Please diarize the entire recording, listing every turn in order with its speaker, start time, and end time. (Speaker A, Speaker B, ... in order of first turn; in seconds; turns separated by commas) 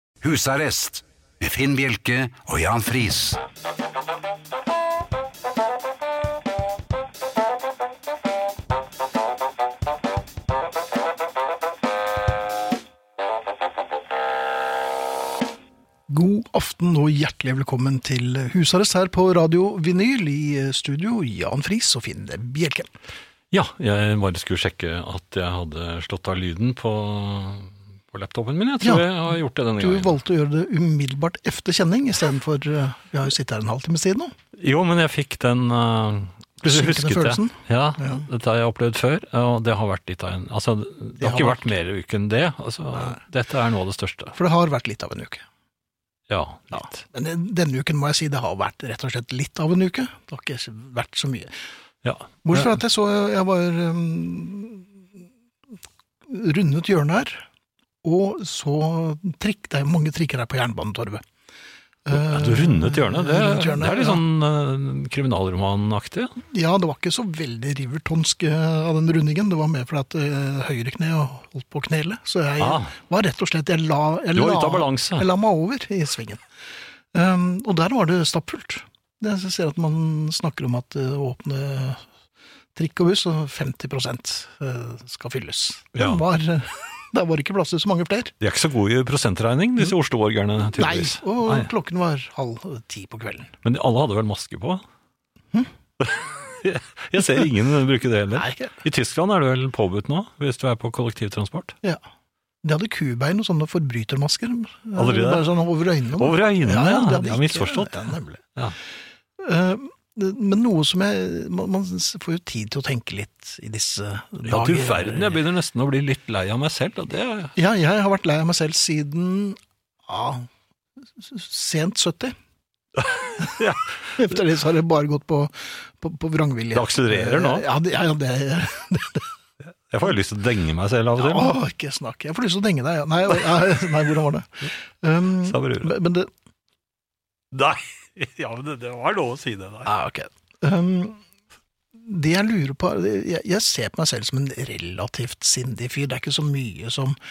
Speaker A: 0.2-3.4, Speaker B: 16.1-22.9, Speaker C: 23.5-30.1, Speaker B: 28.8-29.2, Speaker B: 29.8-34.3, Speaker C: 34.6-44.4, Speaker B: 36.7-38.3, Speaker B: 41.2-41.6, Speaker B: 44.4-45.4, Speaker C: 46.3-47.0, Speaker B: 46.7-51.5, Speaker C: 52.0-52.7, Speaker B: 52.5-54.9, Speaker B: 56.3-57.5, Speaker B: 58.0-61.2, Speaker B: 62.1-64.2, Speaker C: 62.1-66.4, Speaker B: 66.4-76.4, Speaker C: 72.6-72.9, Speaker C: 74.3-75.3, Speaker B: 77.1-82.0, Speaker B: 82.8-88.3, Speaker C: 85.9-86.2, Speaker C: 88.4-91.7, Speaker B: 90.7-93.5, Speaker C: 93.6-94.8, Speaker C: 96.0-101.8, Speaker B: 98.3-98.8, Speaker B: 102.6-108.4, Speaker C: 105.0-105.5, Speaker C: 106.2-108.8, Speaker B: 109.4-115.4, Speaker C: 114.5-117.5, Speaker B: 117.6-120.5, Speaker B: 121.2-122.3, Speaker C: 123.0-124.2, Speaker B: 124.1-129.3, Speaker C: 126.7-127.7, Speaker C: 129.7-131.6, Speaker B: 131.2-136.3, Speaker C: 135.4-135.9, Speaker C: 137.5-139.9, Speaker B: 139.8-141.2, Speaker B: 141.9-147.2